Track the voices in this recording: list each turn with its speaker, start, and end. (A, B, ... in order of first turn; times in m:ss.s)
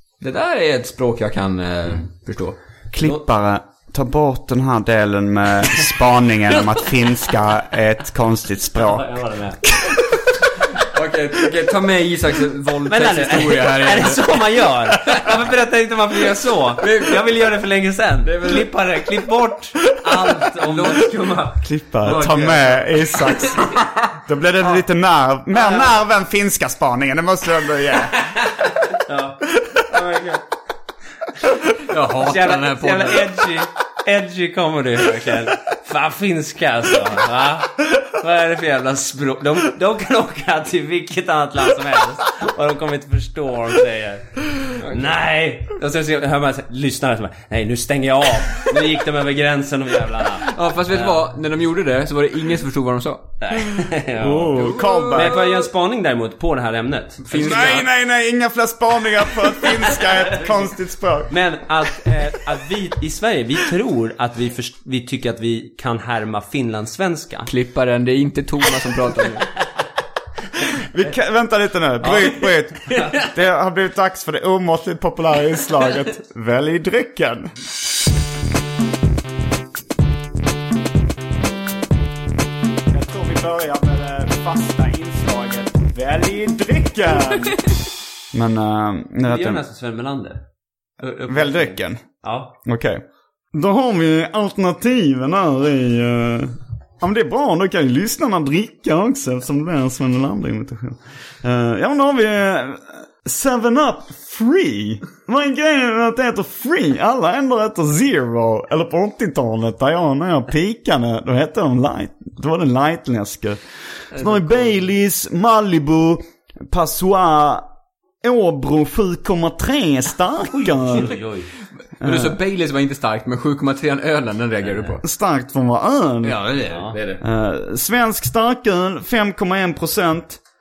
0:00.2-0:02.6 A
0:02.9-0:09.1 B
0:08.8-0:09.6 C
0:09.7-0:10.2 B
0:10.9-0:14.4 A
0:12.9-0:22.3 C
0:16.8-0:17.2 A
0:18.2-0:18.7 A
0:20.6-0:21.1 A
0:21.6-0:28.3 B
0:22.0-0:23.6 A
0:25.5-0:26.0 C
0:28.9-0:30.4 C
0:31.9-0:33.4 A
0:32.2-0:51.2 C
0:50.5-0:53.7 A
0:53.4-0:57.8 C
0:54.2-0:55.4 B
0:54.6-0:55.3 A
0:57.2-0:57.9 A
0:57.3-1:01.4 B
1:01.3-1:07.5 C
1:07.5-1:09.5 A
1:10.9-1:17.5 B
1:12.0-1:12.3 C
1:22.9-1:27.6 B
1:28.3-1:29.6 B
1:29.2-1:30.4 C
1:31.0-1:32.5 C
1:31.3-1:32.0 B
1:32.6-1:33.0 B
1:33.5-1:57.7 B
1:54.2-1:54.6 A
1:58.2-2:01.2 B
2:00.5-2:01.5 C
2:02.0-2:02.4 B
2:02.0-2:05.0 A
2:04.6-2:05.0 C
2:05.0-2:06.4 B
2:06.2-2:07.2 A
2:06.7-2:07.0 C
2:07.2-2:10.4 B